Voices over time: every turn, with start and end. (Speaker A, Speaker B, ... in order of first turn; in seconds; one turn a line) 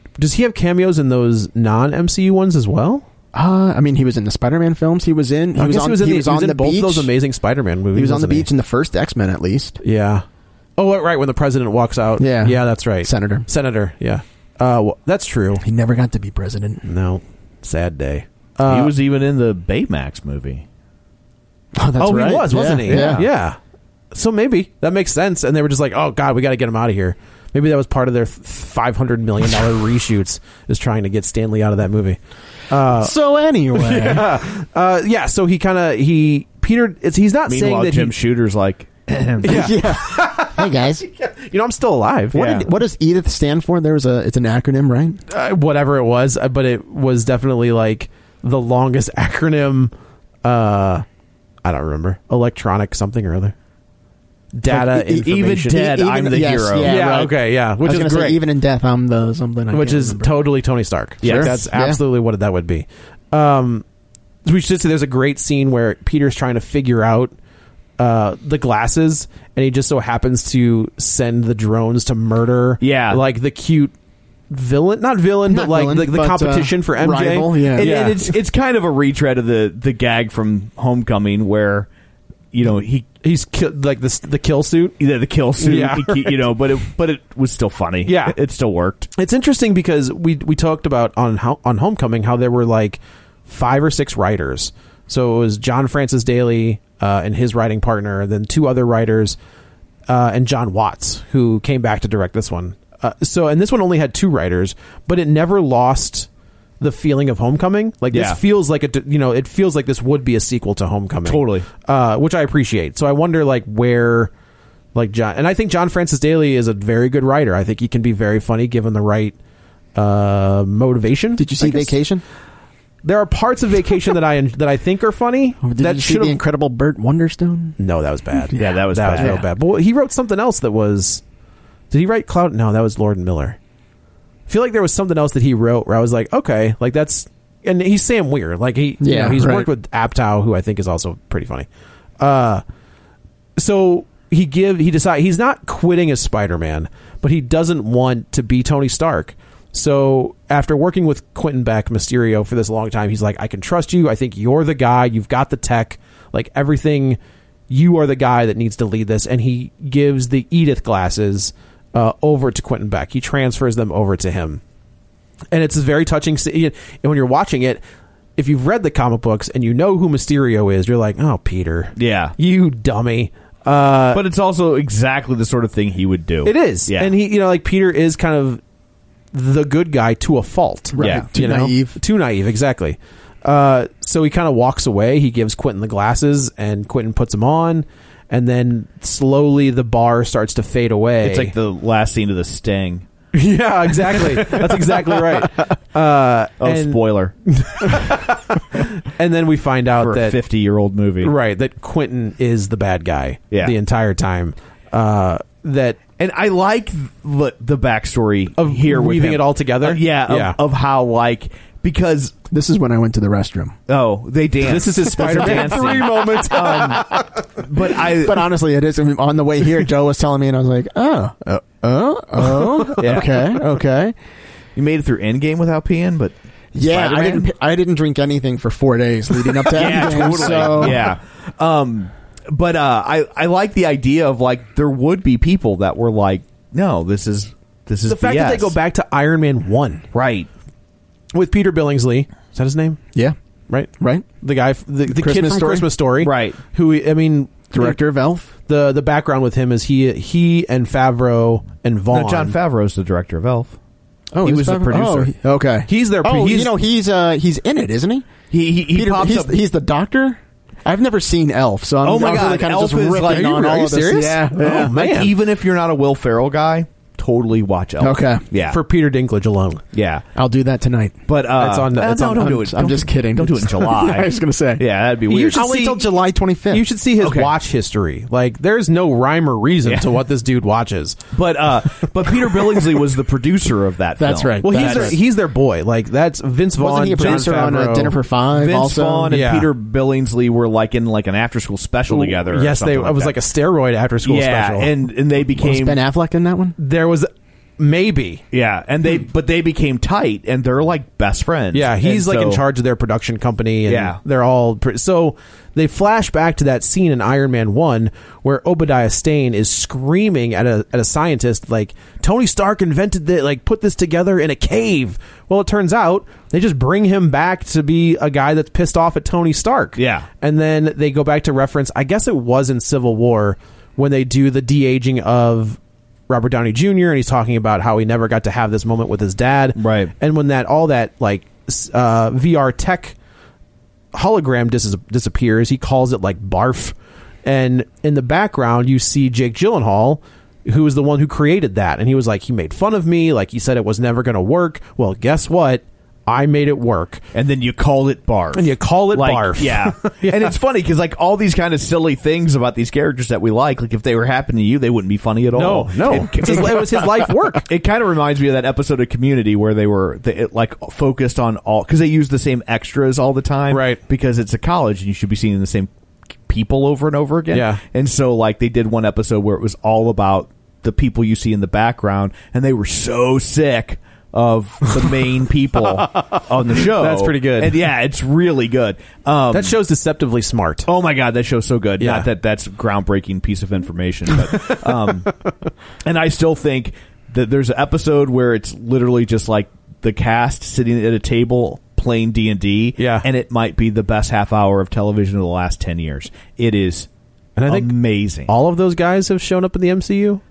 Speaker A: 0.2-3.0
Speaker B: 3.3-7.1
Speaker A: 5.6-8.5
Speaker B: 7.9-9.8
Speaker A: 9.8-10.2
Speaker A: 10.8-15.6
Speaker B: 12.2-13.4
Speaker B: 15.6-16.8
Speaker A: 16.8-18.9
Speaker C: 18.6-20.6
Speaker B: 21.8-23.2
Speaker A: 22.0-23.6
Speaker C: 22.6-23.3
Speaker A: 24.1-32.2
Speaker A: 32.7-33.1
Speaker B: 32.9-34.3
Speaker A: 33.7-38.1
Speaker C: 37.5-39.7
Speaker B: 39.4-41.0
Speaker A: 39.4-42.6
Speaker B: 42.3-45.2
Speaker C: 42.3-42.7
Speaker A: 45.3-49.9
Speaker A: 50.4-51.0
Speaker A: 51.6-53.5
Speaker A: 54.5-55.8
Speaker B: 54.7-60.4
Speaker C: 55.1-57.1
Speaker A: 56.8-58.4
Speaker A: 59.7-63.8
Speaker B: 61.2-62.0
Speaker C: 61.2-61.6
Speaker A: 64.4-67.3
Speaker A: 68.0-73.9
Speaker C: 72.8-73.2
Speaker A: 74.5-78.2
Speaker B: 75.5-77.9
Speaker C: 77.7-81.9
Speaker C: 82.5-83.1
Speaker A: 83.2-85.0
Speaker C: 85.0-89.1
Speaker A: 85.6-86.5
Speaker A: 88.0-88.4
Speaker A: 89.2-99.4
Speaker A: 100.1-106.3
Speaker A: 106.8-114.3
Speaker C: 108.1-108.4
Speaker C: 111.2-111.7
Speaker A: 114.9-119.3
Speaker A: 119.9-122.0
Speaker B: 121.4-122.2
Speaker A: 123.0-126.4
Speaker B: 125.6-127.8
Speaker A: 127.8-131.2
Speaker B: 128.4-129.4
Speaker C: 128.5-129.4
Speaker A: 131.9-133.6
Speaker A: 134.5-141.7
Speaker B: 139.0-139.7
Speaker A: 142.2-142.6
Speaker A: 143.6-157.2
Speaker A: 157.7-164.6
Speaker A: 165.5-167.8
Speaker A: 168.4-174.2
Speaker C: 171.9-172.3
Speaker C: 174.1-177.1
Speaker A: 176.4-178.6
Speaker A: 179.3-191.5
Speaker B: 180.9-182.0
Speaker C: 181.0-181.2
Speaker C: 191.2-193.0
Speaker A: 193.3-200.4
Speaker C: 193.9-195.7
Speaker C: 196.6-197.3
Speaker C: 200.0-201.3
Speaker A: 201.2-206.0
Speaker C: 206.2-212.3
Speaker A: 208.6-210.6
Speaker B: 212.5-213.8
Speaker C: 213.9-218.5
Speaker A: 214.6-217.3
Speaker B: 215.3-215.7
Speaker B: 218.1-224.2
Speaker A: 222.6-223.0
Speaker C: 223.0-223.6
Speaker C: 224.8-227.5
Speaker B: 226.7-231.1
Speaker C: 229.6-238.7
Speaker A: 238.0-240.1
Speaker C: 240.1-240.5
Speaker A: 241.3-243.0
Speaker B: 244.0-244.2
Speaker A: 244.4-248.0
Speaker B: 245.1-245.9
Speaker C: 246.2-246.6
Speaker B: 247.7-248.5
Speaker A: 248.7-252.6
Speaker C: 252.1-253.8
Speaker B: 254.3-264.9
Speaker C: 254.4-255.3
Speaker A: 255.9-256.7
Speaker C: 258.5-259.5
Speaker C: 262.0-268.8
Speaker A: 264.4-265.3
Speaker B: 268.0-268.4
Speaker A: 268.6-269.8
Speaker C: 269.9-270.2
Speaker B: 270.3-271.2
Speaker C: 271.3-275.6
Speaker A: 271.5-272.6
Speaker B: 272.4-274.8
Speaker A: 275.3-276.1
Speaker B: 275.5-276.9
Speaker A: 276.7-281.2
Speaker C: 277.2-277.5
Speaker C: 279.8-280.1
Speaker C: 281.3-285.2
Speaker B: 284.2-285.2
Speaker A: 284.6-288.2
Speaker B: 286.8-289.3
Speaker C: 287.2-287.6
Speaker C: 288.5-293.4
Speaker A: 289.3-289.7
Speaker A: 292.1-294.9
Speaker C: 294.2-296.0
Speaker B: 295.6-296.8
Speaker A: 296.8-298.4
Speaker C: 298.5-302.6
Speaker A: 301.7-333.1
Speaker C: 303.9-304.2
Speaker C: 319.9-320.3
Speaker C: 329.8-330.1
Speaker A: 334.1-347.2
Speaker C: 347.3-365.9
Speaker A: 348.5-350.5
Speaker A: 355.5-357.7
Speaker A: 363.7-364.0
Speaker C: 366.4-379.8
Speaker A: 367.5-367.8
Speaker A: 376.4-377.8
Speaker A: 379.5-380.9
Speaker C: 380.9-385.3
Speaker A: 382.0-382.3
Speaker C: 386.0-397.1
Speaker A: 393.0-393.2
Speaker A: 397.6-397.9
Speaker C: 397.7-398.5
Speaker A: 398.4-400.4